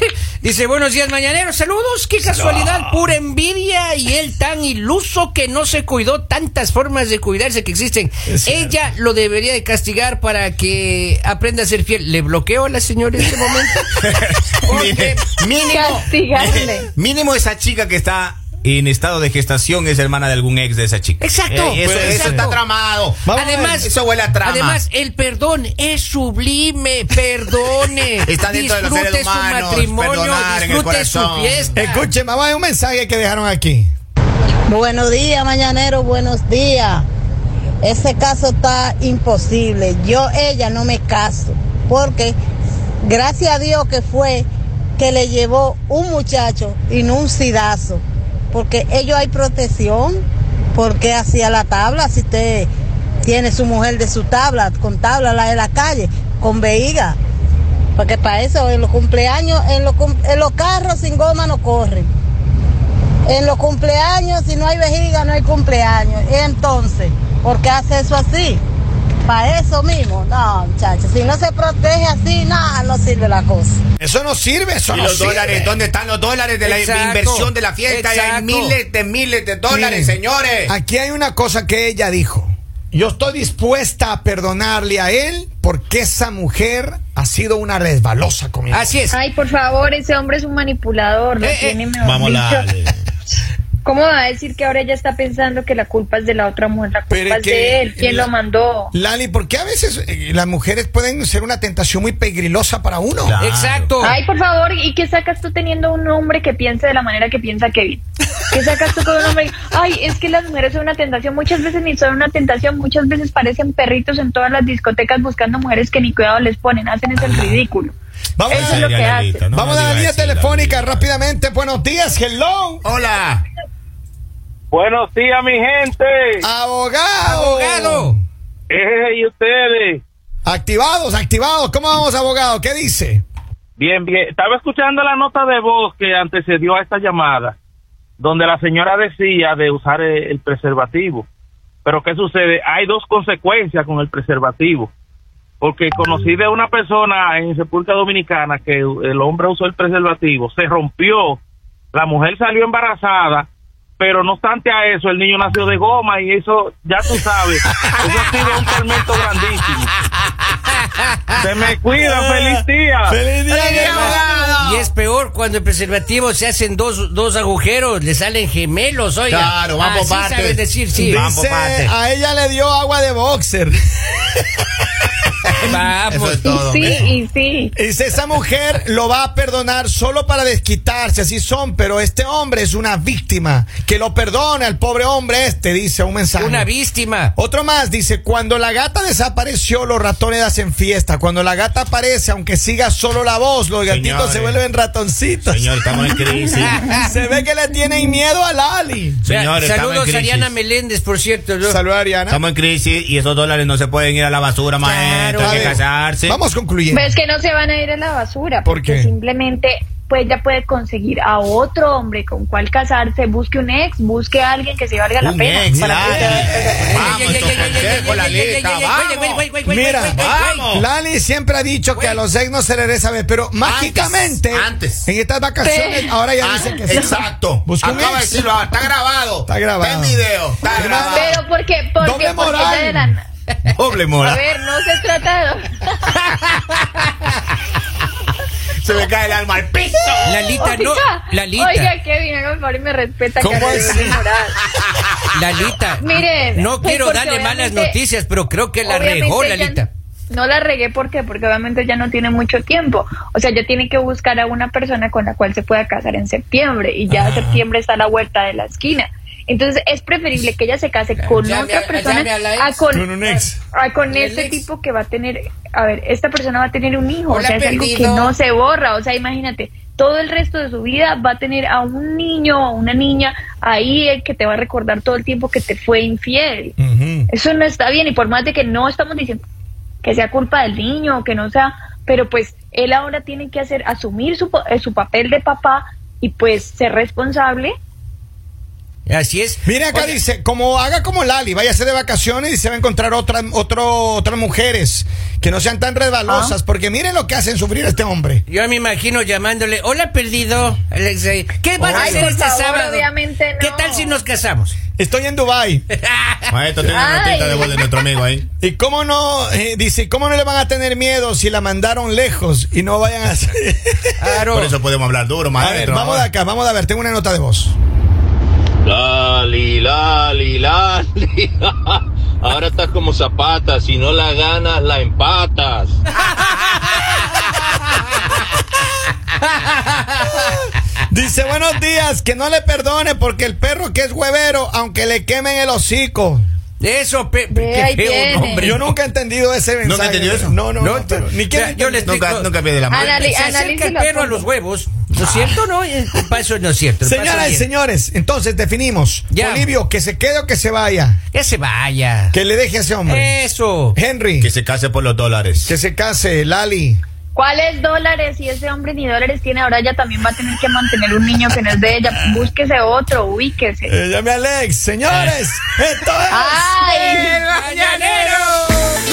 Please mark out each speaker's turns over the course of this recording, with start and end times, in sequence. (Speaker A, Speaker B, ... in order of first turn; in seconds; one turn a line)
Speaker A: 0.4-14.0
Speaker B: 2.3-2.7
Speaker B: 8.3-8.8
Speaker C: 14.0-24.8
Speaker A: 14.6-15.3
Speaker D: 15.7-16.9
Speaker A: 21.2-22.6
Speaker B: 21.8-22.6
Speaker B: 23.2-23.9
Speaker A: 23.3-32.1
Speaker C: 28.3-31.7
Speaker B: 31.8-33.9
Speaker E: 34.7-37.1
Speaker E: 37.8-42.4
Speaker E: 43.0-44.5
Speaker E: 45.0-50.2
Speaker E: 50.8-52.7
Speaker E: 53.2-57.2
Speaker E: 58.0-62.1
Speaker E: 63.3-68.6
Speaker E: 69.3-73.8
Speaker B: 74.0-75.8
Speaker C: 74.9-80.7
Speaker A: 76.6-78.8
Speaker B: 79.7-89.0
Speaker A: 88.7-89.2
Speaker D: 89.1-92.7
Speaker A: 91.4-91.8
Speaker C: 92.0-93.0
Speaker D: 93.8-98.9
Speaker B: 97.1-98.3
Speaker B: 98.9-103.4
Speaker C: 103.2-104.0
Speaker A: 103.4-104.2
Speaker D: 104.0-118.0
Speaker B: 118.4-118.9
Speaker C: 118.5-121.1
Speaker D: 118.5-119.5
Speaker B: 119.5-122.8
Speaker C: 122.8-123.4
Speaker F: 124.7-126.5
Speaker B: 126.4-128.2
Speaker A: 127.2-128.2
Speaker F: 128.7-130.0
Speaker B: 130.5-133.2
Speaker F: 133.8-137.6
Speaker F: 138.2-141.3
Speaker F: 141.8-144.9
Speaker F: 145.6-151.4
Speaker F: 151.9-153.5
Speaker F: 154.0-159.9
Speaker A: 160.7-161.0
Speaker F: 161.3-163.2
Speaker B: 162.0-164.2
Speaker C: 163.5-164.9
Speaker A: 163.7-171.3
Speaker C: 169.3-171.9
Speaker B: 170.9-174.2
Speaker C: 175.5-176.9
Speaker A: 175.6-176.6
Speaker D: 176.4-177.7
Speaker B: 176.8-177.2
Speaker B: 177.8-186.7
Speaker A: 186.4-187.3
Speaker B: 187.4-195.7
Speaker C: 193.8-194.6
Speaker C: 195.4-196.9
Speaker A: 196.6-197.0
Speaker B: 196.9-199.2
Speaker C: 199.2-200.5
Speaker A: 199.3-201.8
Speaker B: 201.6-202.4
Speaker C: 202.3-206.4
Speaker A: 204.8-205.7
Speaker B: 205.4-207.1
Speaker D: 206.9-217.4
Speaker B: 208.6-209.1
Speaker C: 215.2-219.5
Speaker B: 215.7-217.2
Speaker A: 216.9-220.7
Speaker B: 219.7-228.6
Speaker C: 220.1-220.8
Speaker A: 221.9-222.2
Speaker C: 223.6-225.1
Speaker D: 225.6-227.2
Speaker C: 226.4-231.4
Speaker B: 229.5-231.4
Speaker D: 230.7-233.2
Speaker B: 232.0-233.2
Speaker C: 233.7-234.4
Speaker D: 234.2-236.1
Speaker A: 236.3-237.0
Speaker C: 238.8-240.5
Speaker A: 240.2-241.9
Speaker D: 240.5-244.6
Speaker B: 243.4-244.2
Speaker A: 245.3-249.9
Speaker D: 246.0-248.0
Speaker D: 248.8-263.1
Speaker B: 257.1-257.6
Speaker A: 261.1-263.5
Speaker B: 262.9-263.6
Speaker D: 263.7-276.8
Speaker A: 264.1-264.7
Speaker A: 267.3-268.4
Speaker B: 276.8-277.3
Speaker D: 277.3-279.4
Speaker D: 280.0-287.7
Speaker A: 289.1-290.2
Speaker B: 289.6-298.4
Speaker D: 296.2-296.6
Speaker A: 298.5-303.1
Speaker B: 301.8-302.3
Speaker D: 301.9-304.2
Speaker A: 303.6-304.8
Speaker B: 305.0-305.9
Speaker A: 306.0-306.5
Speaker C: 306.5-308.5
Speaker D: 306.8-308.0
Speaker B: 308.6-314.1
Speaker A: 314.2-314.8
Speaker C: 314.4-316.3
Speaker B: 315.6-317.8
Speaker G: 318.9-326.0
Speaker A: 329.6-330.6
Speaker B: 331.1-336.4
Speaker A: 336.8-338.8
Speaker D: 337.5-338.7
Speaker B: 338.6-342.1
Speaker C: 339.8-340.6
Speaker A: 340.8-347.7
Speaker C: 342.0-343.3
Speaker D: 342.9-344.5
Speaker B: 347.0-351.2
Speaker A: 349.3-349.7
Speaker A: 351.3-352.4
Speaker B: 352.3-353.4
Speaker A: 353.1-354.0
Speaker B: 353.9-354.5
Speaker C: 354.4-355.7
Speaker B: 355.6-357.0
Speaker D: 357.4-363.9
Speaker B: 363.9-366.6
Speaker A: 365.1-365.4
Speaker D: 366.3-367.4
Speaker A: 366.9-368.8
Speaker C: 367.3-368.7